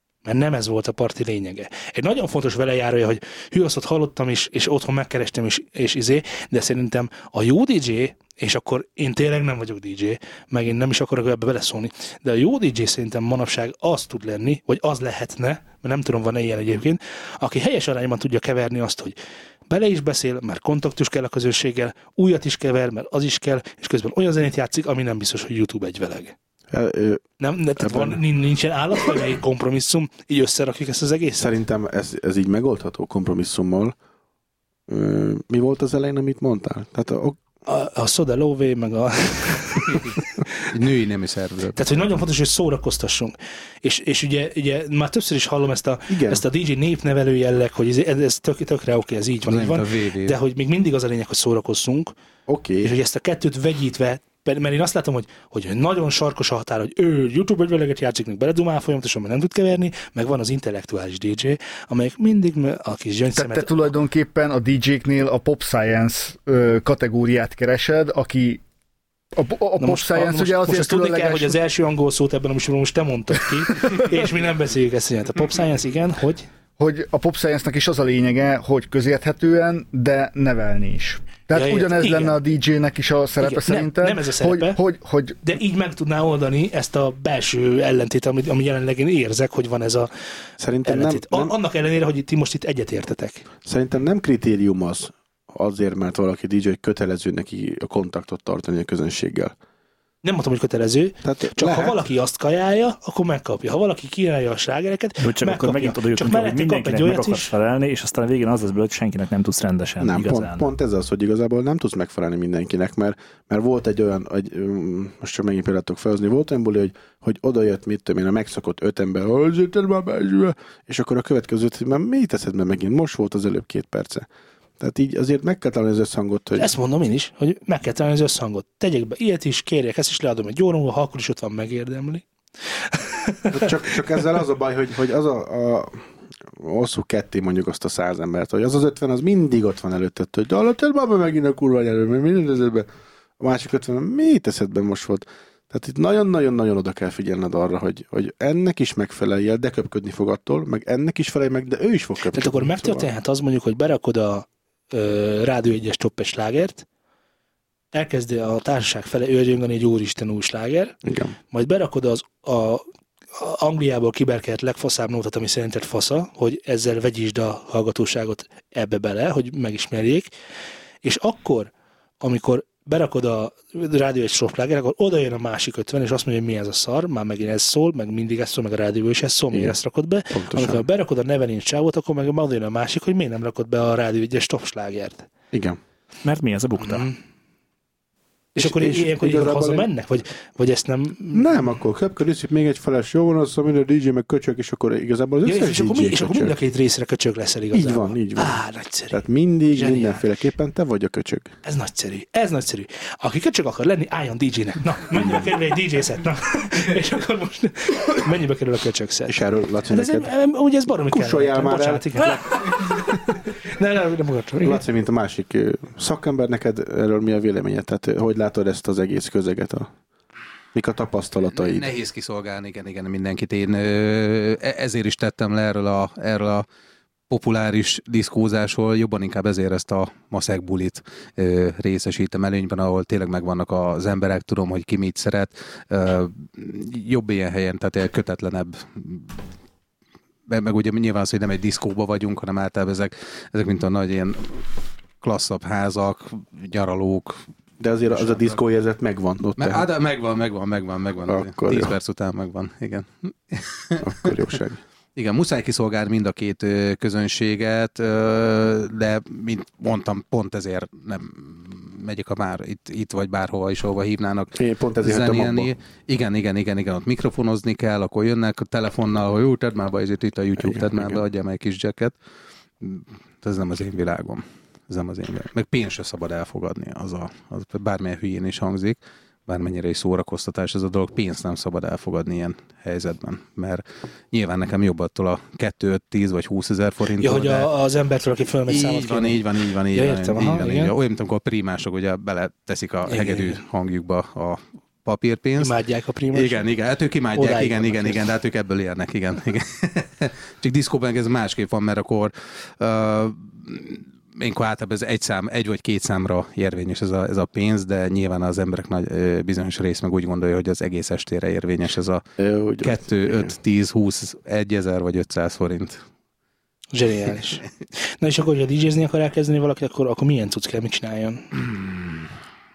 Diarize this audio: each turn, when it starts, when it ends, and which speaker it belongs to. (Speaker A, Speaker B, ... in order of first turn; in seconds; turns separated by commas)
Speaker A: 0.2-19.2, Speaker A: 19.7-26.3, Speaker B: 26.7-27.2, Speaker A: 27.4-31.5, Speaker B: 27.8-28.2, Speaker B: 31.4-34.0, Speaker B: 34.9-37.4, Speaker A: 37.7-40.3, Speaker C: 40.7-42.0, Speaker A: 41.8-52.1, Speaker B: 46.1-46.4, Speaker C: 49.5-50.4, Speaker B: 52.5-52.9, Speaker A: 52.8-63.9, Speaker D: 63.4-68.6, Speaker D: 69.4-71.5, Speaker A: 69.8-76.5, Speaker D: 76.8-85.4, Speaker A: 81.5-82.4, Speaker A: 83.4-84.8, Speaker A: 85.4-90.1, Speaker B: 90.6-91.5, Speaker A: 90.8-93.5, Speaker B: 93.7-99.5, Speaker A: 100.2-107.5, Speaker B: 101.2-102.0, Speaker E: 105.2-110.7, Speaker B: 110.0-124.3, Speaker B: 124.8-126.7, Speaker A: 126.6-132.2, Speaker A: 132.9-133.9, Speaker B: 133.5-136.0, Speaker B: 136.6-142.9, Speaker B: 143.4-153.1, Speaker A: 152.3-156.8, Speaker A: 157.9-161.0, Speaker B: 161.1-161.3, Speaker A: 161.5-170.3, Speaker A: 171.0-185.3, Speaker B: 180.3-180.8, Speaker B: 185.5-185.8, Speaker E: 186.2-187.1, Speaker A: 186.8-187.2, Speaker A: 188.6-191.7, Speaker B: 188.6-189.9, Speaker B: 191.3-196.5, Speaker A: 195.4-200.3, Speaker B: 197.7-198.6, Speaker B: 199.1-201.5, Speaker A: 201.6-209.4, Speaker B: 205.1-205.5, Speaker B: 209.3-210.3, Speaker A: 209.9-214.8, Speaker B: 211.1-212.5, Speaker B: 214.6-219.9, Speaker B: 220.7-221.9, Speaker C: 221.6-226.7, Speaker C: 227.3-239.4, Speaker C: 240.5-244.7, Speaker C: 245.2-247.4, Speaker B: 247.8-249.8, Speaker C: 248.1-248.6, Speaker C: 249.6-254.4, Speaker B: 251.3-251.9, Speaker B: 254.0-254.8, Speaker C: 255.2-272.2, Speaker B: 264.6-265.7, Speaker B: 270.6-271.2, Speaker C: 272.8-287.7, Speaker A: 287.2-290.9, Speaker C: 288.7-295.7, Speaker A: 293.1-293.6, Speaker A: 295.6-296.6, Speaker C: 296.3-312.2, Speaker A: 297.3-298.3, Speaker B: 312.4-313.5, Speaker C: 312.8-316.0, Speaker A: 316.9-317.7, Speaker A: 318.2-321.6, Speaker C: 321.6-322.3